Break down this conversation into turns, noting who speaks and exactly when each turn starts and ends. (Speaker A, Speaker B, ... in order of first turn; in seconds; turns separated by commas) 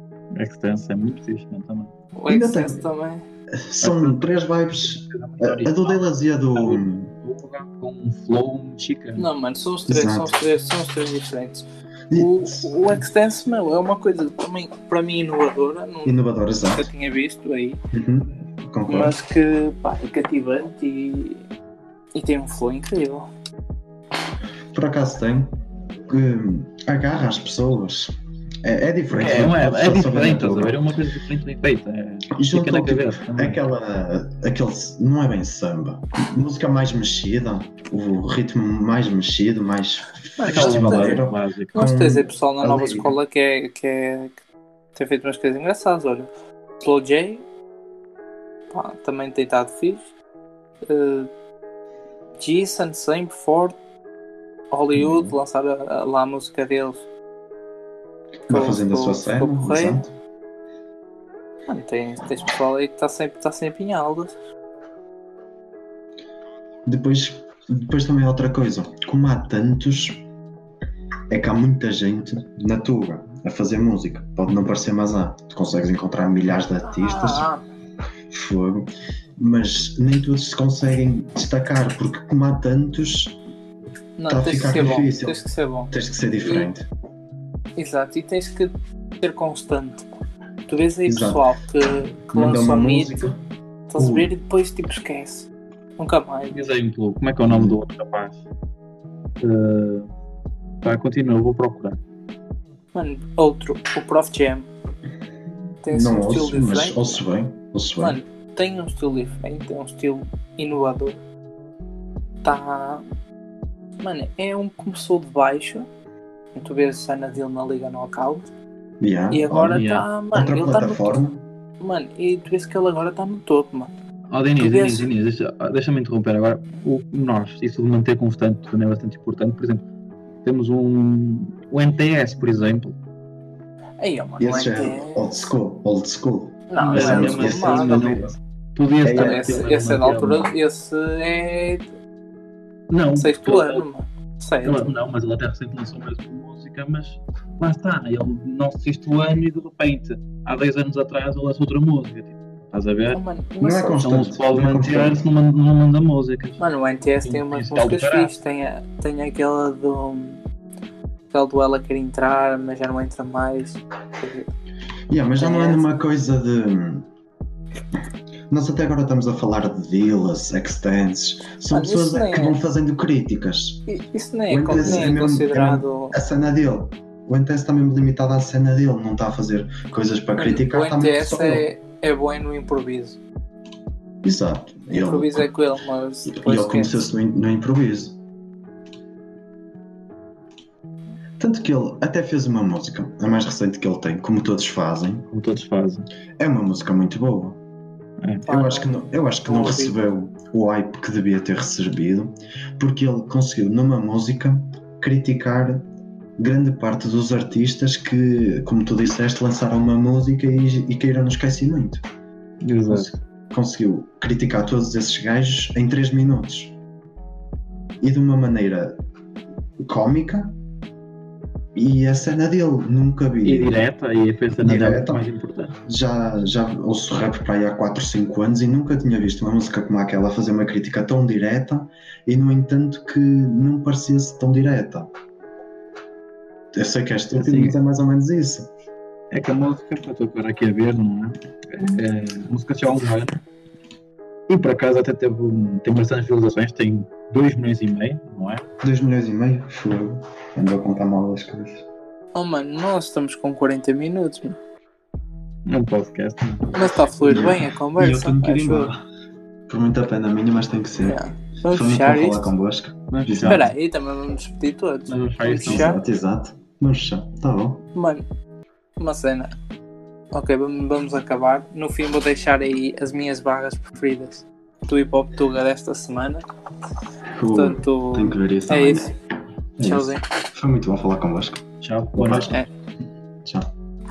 Speaker A: 0.3-1.9, Speaker B: 2.2-3.2, Speaker C: 2.3-2.8, Speaker C: 3.5-7.1, Speaker A: 3.8-4.3, Speaker A: 4.8-9.3, Speaker B: 9.2-16.2, Speaker C: 9.9-10.3, Speaker C: 12.1-13.0, Speaker C: 16.1-16.9, Speaker B: 16.7-17.8, Speaker C: 17.9-19.1, Speaker B: 18.9-21.4, Speaker B: 22.1-23.3, Speaker C: 24.7-25.6, Speaker C: 26.1-30.8, Speaker A: 29.1-33.6, Speaker C: 32.4-43.1, Speaker B: 40.4-41.2, Speaker A: 40.5-41.8, Speaker B: 41.7-44.4, Speaker B: 45.0-47.4, Speaker B: 48.7-50.0, Speaker B: 50.9-51.3, Speaker B: 52.4-53.8, Speaker B: 54.7-57.0, Speaker C: 55.0-55.4, Speaker C: 58.5-60.1, Speaker B: 58.5-60.0, Speaker B: 61.7-64.4, Speaker C: 66.9-70.2, Speaker C: 71.3-77.5, Speaker B: 76.9-77.6, Speaker C: 78.3-83.4, Speaker B: 84.2-86.0, Speaker C: 84.3-85.4, Speaker C: 85.9-86.9, Speaker B: 87.8-90.1, Speaker B: 90.7-93.3, Speaker C: 91.1-91.4, Speaker C: 92.3-93.4, Speaker B: 93.9-96.7, Speaker C: 94.0-94.3, Speaker A: 96.5-98.4, Speaker C: 97.5-97.8, Speaker A: 99.4-100.1, Speaker A: 100.8-102.0, Speaker B: 102.9-104.7, Speaker B: 105.8-107.2, Speaker C: 105.9-108.2, Speaker B: 108.0-111.2, Speaker B: 112.4-113.0, Speaker B: 114.0-115.9, Speaker B: 116.5-118.5, Speaker C: 119.0-121.5, Speaker B: 119.3-121.2, Speaker A: 119.7-120.1, Speaker B: 121.8-123.9, Speaker A: 124.3-129.8, Speaker B: 124.6-125.1, Speaker A: 130.4-132.9, Speaker B: 134.0-135.2, Speaker C: 134.4-138.3, Speaker B: 136.7-138.3, Speaker A: 136.8-140.5, Speaker C: 139.0-139.5, Speaker B: 139.1-141.9, Speaker A: 142.9-143.8, Speaker B: 143.2-144.9, Speaker A: 144.7-153.2, Speaker B: 153.1-154.1, Speaker C: 153.6-155.2, Speaker A: 154.0-156.6, Speaker B: 156.6-160.4, Speaker A: 157.2-158.3, Speaker B: 161.3-164.5, Speaker C: 165.1-167.1, Speaker B: 165.4-165.8, Speaker C: 168.5-173.8, Speaker B: 171.7-172.6, Speaker B: 173.9-176.2, Speaker C: 174.5-181.7, Speaker B: 180.4-183.2, Speaker C: 184.2-185.5, Speaker B: 184.9-187.1, Speaker C: 186.3-188.2, Speaker C: 191.4-195.3, Speaker A: 195.3-196.1, Speaker C: 196.4-197.6, Speaker B: 198.5-200.0, Speaker C: 198.5-212.0, Speaker A: 212.6-213.1, Speaker C: 212.9-216.8, Speaker C: 218.0-219.0, Speaker C: 219.8-220.6, Speaker C: 221.8-223.8, Speaker A: 223.4-225.8, Speaker C: 224.6-225.2, Speaker C: 225.8-235.1, Speaker C: 236.7-238.7, Speaker A: 237.3-237.8, Speaker A: 239.3-243.4, Speaker A: 244.5-248.6, Speaker C: 248.8-251.8, Speaker B: 252.3-254.6, Speaker A: 255.7-256.8, Speaker B: 256.7-258.9, Speaker C: 257.3-259.0, Speaker C: 259.7-263.6, Speaker B: 261.0-262.5, Speaker A: 263.1-263.7, Speaker B: 263.4-266.0, Speaker A: 265.1-265.9, Speaker C: 265.6-267.9, Speaker B: 267.9-268.2, Speaker B: 269.0-269.5, Speaker B: 270.3-276.4, Speaker C: 277.3-279.1, Speaker B: 277.5-279.1, Speaker C: 279.8-282.6, Speaker B: 279.8-280.2, Speaker A: 281.8-282.6